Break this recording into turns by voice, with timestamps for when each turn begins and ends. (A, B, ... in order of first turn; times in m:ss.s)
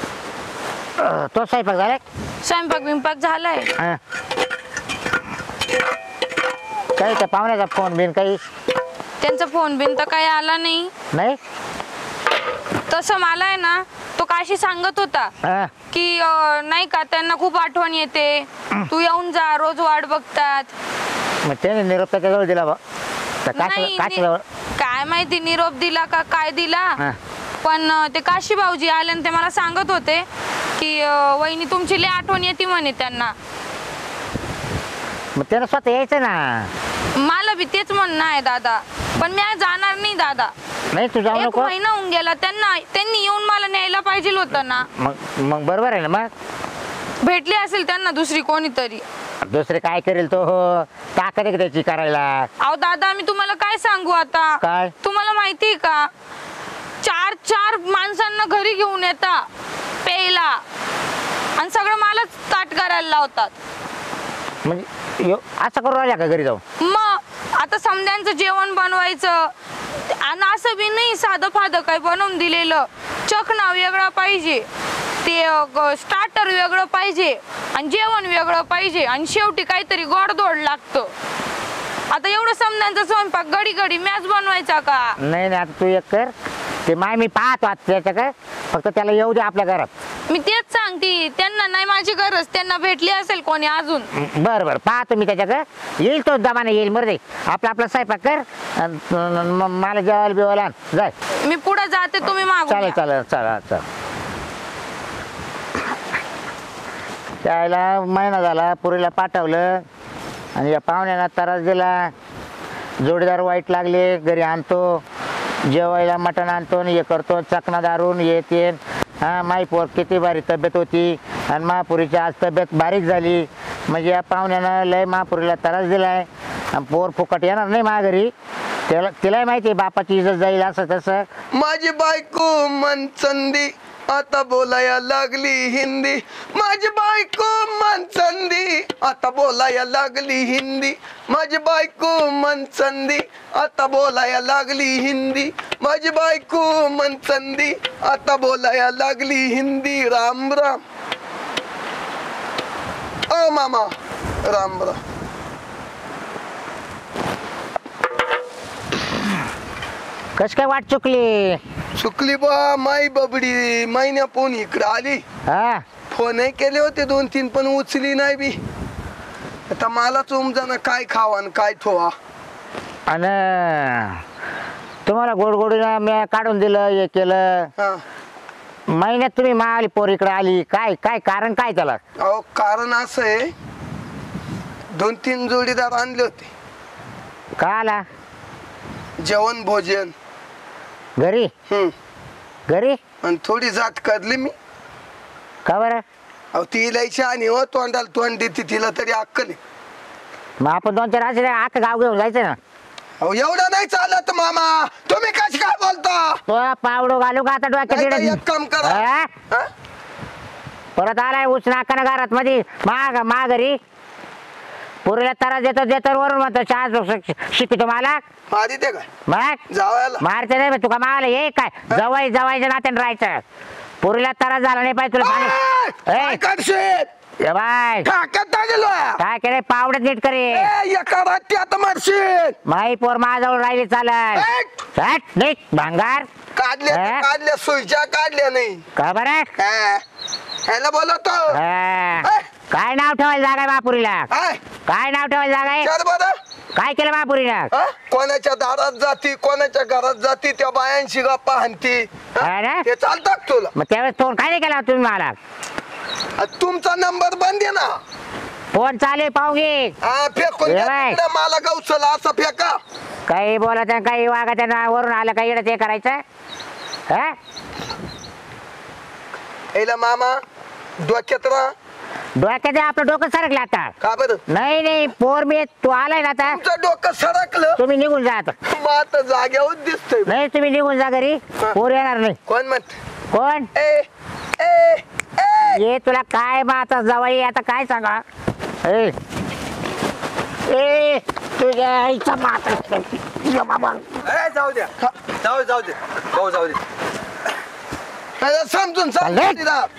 0:01.0-0:02.0 A
0:02.4-0:03.7 B
0:07.0-0:08.4 A
0:09.2-0:10.9 B
0:11.1-0:11.4 A
0:12.9-0:15.3 B
0:15.4-0:15.7 A
0:15.9-0:20.7 B
0:21.4-0:22.8 A
0:23.4-0:24.4 A
0:23.5-0:24.2 B
0:24.8-0:27.0 B
0:27.6-0:30.3 B
0:30.8-0:33.4 B
0:35.4-0:36.7 A
0:37.1-0:40.5 B
0:40.9-0:41.7 A
0:41.3-0:44.9 B
0:45.0-0:46.3 A
0:47.2-0:49.0 B
0:49.4-0:52.5 A
0:52.6-0:56.1 B
0:54.6-0:54.9 A
0:57.0-0:59.5 B
1:00.0-1:00.6 B
1:01.6-1:03.5 B
1:04.6-1:06.6 A
1:06.8-1:14.7 B
1:15.2-1:21.1 B
1:22.1-1:25.2 B
1:25.2-1:26.3 A
1:26.9-1:29.9 A
1:30.3-1:34.1 B
1:34.1-1:41.1 A
1:41.4-1:43.0 B
1:42.7-1:43.8 A
1:47.4-1:49.8 A
1:50.6-1:52.1 A
1:53.0-1:55.0 A
1:55.7-2:08.3 A
2:08.9-2:11.3 A
2:11.5-2:30.8 C
2:33.3-2:33.9 C
2:34.4-2:35.0 C
2:40.4-2:41.6 A
2:42.0-2:45.2 C
2:45.5-2:45.8 A
2:46.1-2:48.6 C
2:49.7-2:52.2 C
2:53.1-2:54.2 A
2:55.1-2:57.7 A
2:57.8-2:58.0 C
2:58.9-3:02.0 A
3:02.2-3:03.5 C
3:04.9-3:06.5 C
3:07.6-3:08.0 A
3:09.2-3:10.1 C
3:11.2-3:11.5 A
3:11.7-3:11.9 C
3:12.7-3:13.0 A
3:13.2-3:14.5 C
3:15.7-3:16.0 A
3:16.5-3:19.6 C
3:20.6-3:22.6 A
3:23.2-3:26.4 C
3:26.5-3:29.3 A
3:27.9-3:29.7 C
3:31.0-3:33.8 A
3:35.0-3:38.2 A
3:38.5-3:39.1 C
3:39.3-3:39.6 A
3:39.7-3:40.2 C
3:40.2-3:43.4 A
3:44.0-3:45.6 A
3:45.2-3:47.1 C
3:46.1-3:46.4 A
3:47.4-3:48.1 A
3:48.0-3:49.2 C
3:49.2-3:50.7 A
3:50.5-3:52.6 C
3:52.7-3:56.3 A
3:54.3-3:54.8 C
3:56.6-3:58.8 C
3:56.9-3:57.3 A
3:59.0-3:59.5 A
3:59.6-4:00.0 C
4:00.7-4:01.6 C
4:01.5-4:04.3 A
4:04.3-4:04.6 C
4:04.9-4:05.9 A
4:05.8-4:06.4 C
4:06.8-4:07.7 A
4:07.7-4:13.7 C
4:12.4-4:12.8 A
4:13.8-4:15.4 A
4:16.4-4:18.0 C
4:18.7-4:20.0 A
4:20.0-4:22.8 C
4:20.6-4:21.2 A
4:23.3-4:26.2 A
4:27.1-4:27.4 A
4:29.7-4:30.4 C
4:31.0-4:31.7 C
4:32.4-4:34.0 A
4:34.0-4:34.4 C
4:34.5-4:36.6 A
4:36.5-4:37.8 C
4:37.8-4:38.5 A
4:38.7-4:40.3 C
4:40.3-4:42.4 A
4:42.5-4:42.9 C
4:43.3-4:43.7 A
4:43.8-4:44.1 C
4:44.6-4:45.8 C
4:45.7-4:48.2 A
4:48.8-4:49.2 A
4:50.7-4:54.1 A
4:54.2-4:56.8 D
4:58.4-4:59.9 C
4:59.2-4:59.6 A